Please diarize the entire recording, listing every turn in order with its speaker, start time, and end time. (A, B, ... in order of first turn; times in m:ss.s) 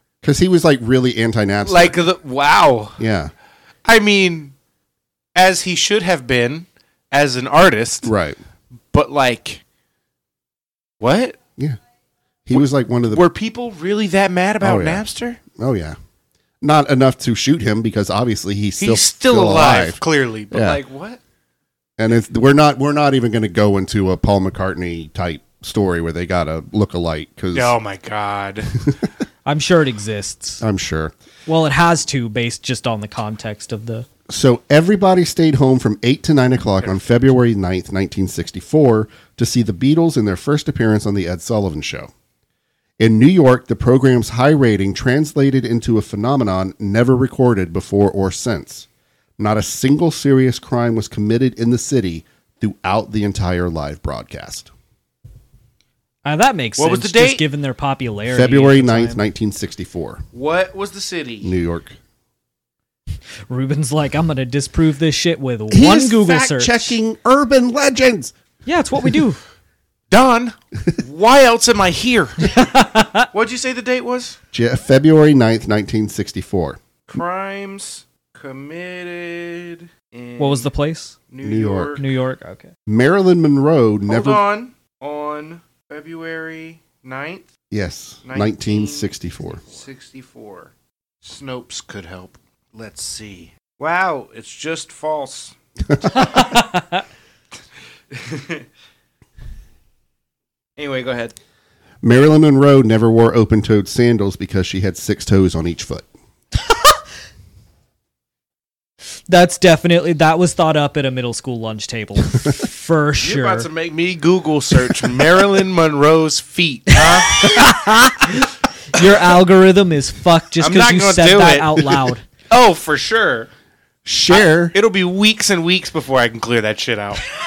0:00.2-0:02.0 A
0:01.6-0:03.0 B
0:03.0-0:03.3 A
0:03.8-0:04.5 B
0:05.3-0:08.1 B
0:08.0-0:08.4 A
0:08.9-0:09.6 B
0:11.0-0:11.4 B
0:12.4-0:13.2 A
0:12.5-0:15.4 B
0:14.6-0:15.0 A
0:15.5-0:16.0 A
0:16.6-0:20.8 A
0:18.8-0:21.2 B
0:22.0-0:27.8 A
0:27.5-0:28.8 B
0:29.4-0:30.6 C
0:30.6-0:31.1 A
0:31.5-0:34.1 C
0:34.3-0:42.1 A
0:43.0-0:48.9 A
0:49.4-0:54.7 A
0:56.2-0:59.2 C
0:56.8-0:57.4 B
0:58.3-1:00.2 A
1:00.3-1:01.5 B
1:01.4-1:02.0 A
1:03.5-1:06.9 C
1:05.7-1:08.3 A
1:08.6-1:09.4 C
1:10.1-1:14.4 B
1:12.4-1:13.3 C
1:14.5-1:16.8 A
1:17.1-1:20.7 B
1:20.4-1:21.2 C
1:21.3-1:22.0 B
1:21.4-1:22.0 A
1:22.0-1:22.7 C
1:22.9-1:24.4 A
1:24.1-1:27.5 B
1:27.7-1:29.6 A
1:28.2-1:30.7 B
1:31.2-1:35.5 B
1:36.1-1:37.0 C
1:38.1-1:38.6 B
1:40.8-1:41.3 B
1:42.0-1:46.1 A
1:46.5-1:47.0 C
1:49.3-1:53.7 C
1:53.2-1:57.9 B
1:56.9-2:02.2 C
2:00.6-2:01.9 B
2:02.5-2:03.5 B
2:04.0-2:04.8 A
2:04.3-2:07.2 B